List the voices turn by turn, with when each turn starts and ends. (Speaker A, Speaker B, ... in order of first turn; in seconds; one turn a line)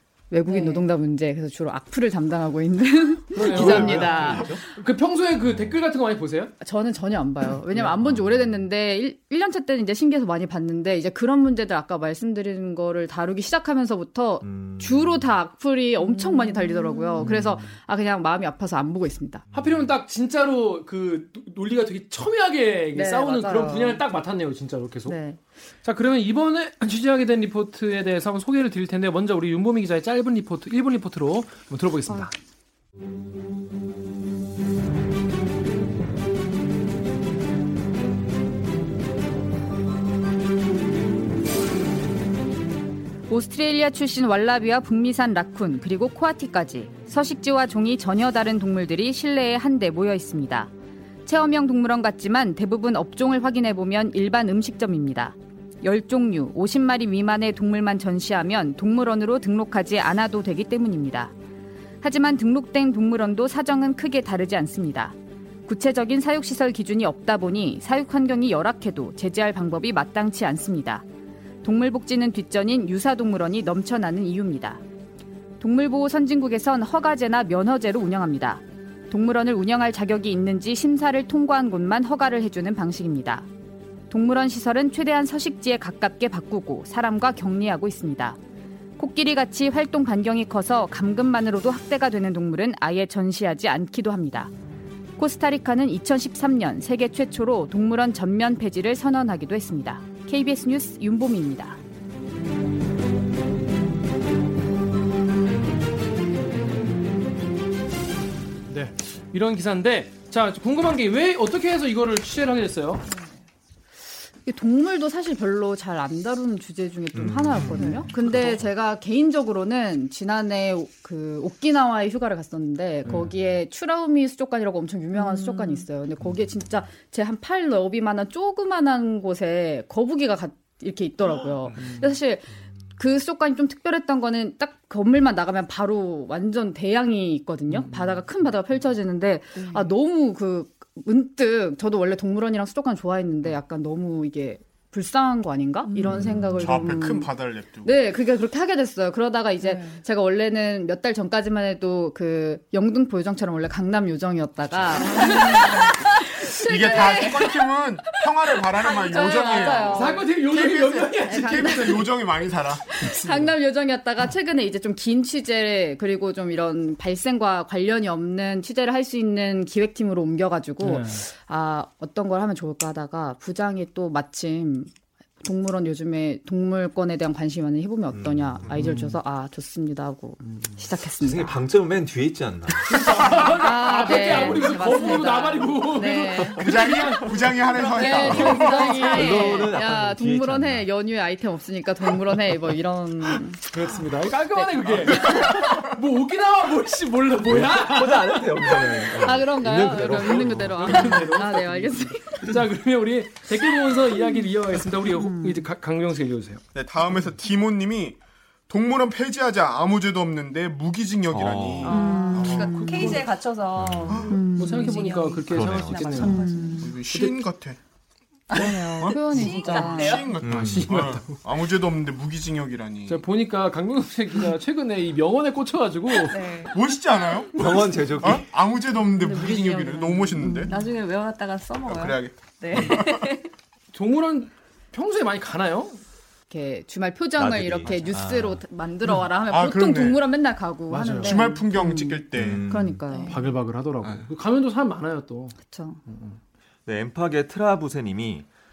Speaker A: 0.3-4.7
Speaker B: 0.5-0.8
Speaker C: 3.3-6.5
Speaker D: 3.5-4.6
Speaker E: 3.5-4.6
Speaker A: 6.6-19.4
Speaker D: 8.0-8.5
Speaker D: 14.4-15.2
Speaker B: 16.0-17.3
Speaker C: 17.2-17.6
Speaker C: 19.5-25.2
Speaker A: 22.9-24.0
Speaker A: 25.1-25.4
Speaker C: 25.8-32.3
Speaker A: 43.3-50.7
Speaker A: 51.2-61.3
Speaker A: 62.0-65.1
Speaker A: 65.7-71.0
Speaker A: 71.6-74.8
Speaker A: 75.6-83.5
Speaker A: 84.1-88.4
Speaker A: 89.0-94.5
Speaker A: 95.2-101.8
Speaker C: 108.7-113.0
Speaker A: 114.5-147.3
Speaker D: 117.1-117.8
Speaker B: 117.8-118.1
Speaker B: 125.1-125.9
Speaker C: 137.7-138.2
Speaker B: 139.6-139.9
Speaker B: 145.9-146.3
Speaker D: 146.0-146.6
Speaker E: 146.2-147.9
Speaker A: 147.8-157.7
Speaker B: 149.6-150.0
Speaker B: 155.0-157.6
Speaker E: 156.6-162.9
Speaker A: 158.2-160.3
Speaker B: 158.7-160.2
Speaker C: 159.9-162.1
Speaker A: 161.0-162.1
Speaker A: 162.9-174.9
Speaker C: 163.0-163.5
Speaker C: 170.8-171.2
Speaker A: 175.4-181.6
Speaker D: 178.1-178.7
Speaker C: 178.8-179.2
Speaker D: 181.2-183.3
Speaker C: 182.8-187.9
Speaker A: 183.1-186.7
Speaker D: 184.3-184.6
Speaker E: 186.5-189.1
Speaker B: 187.7-189.6
Speaker A: 187.8-193.7
Speaker D: 188.3-190.9
Speaker C: 193.7-206.6
Speaker E: 195.2-195.8
Speaker D: 197.5-201.3
Speaker A: 199.1-202.5
Speaker A: 205.1-205.7
Speaker E: 206.7-213.2
Speaker D: 211.3-212.1
Speaker B: 211.8-216.9
Speaker A: 211.9-213.2
Speaker C: 212.2-213.3
Speaker D: 213.7-214.3
Speaker E: 214.1-214.3
Speaker A: 214.3-215.2
Speaker C: 214.4-216.5
Speaker D: 215.5-216.3
Speaker A: 216.2-216.9
Speaker E: 216.8-217.8
Speaker B: 218.5-220.4
Speaker A: 218.5-220.3
Speaker E: 218.6-223.2
Speaker D: 220.4-221.0
Speaker C: 220.5-221.4
Speaker C: 223.1-226.5
Speaker B: 226.1-228.2
Speaker E: 226.6-230.7
Speaker D: 227.5-228.4
Speaker A: 229.1-230.7
Speaker B: 230.6-233.5
Speaker E: 231.8-233.3
Speaker C: 233.9-236.0
Speaker A: 236.5-243.3
Speaker D: 237.4-238.6
Speaker E: 239.5-240.2
Speaker C: 240.9-241.4
Speaker E: 241.2-242.7
Speaker D: 242.3-243.0
Speaker B: 243.1-243.5
Speaker C: 243.2-245.6
Speaker A: 245.7-246.0
Speaker C: 246.1-246.4
Speaker D: 246.8-248.5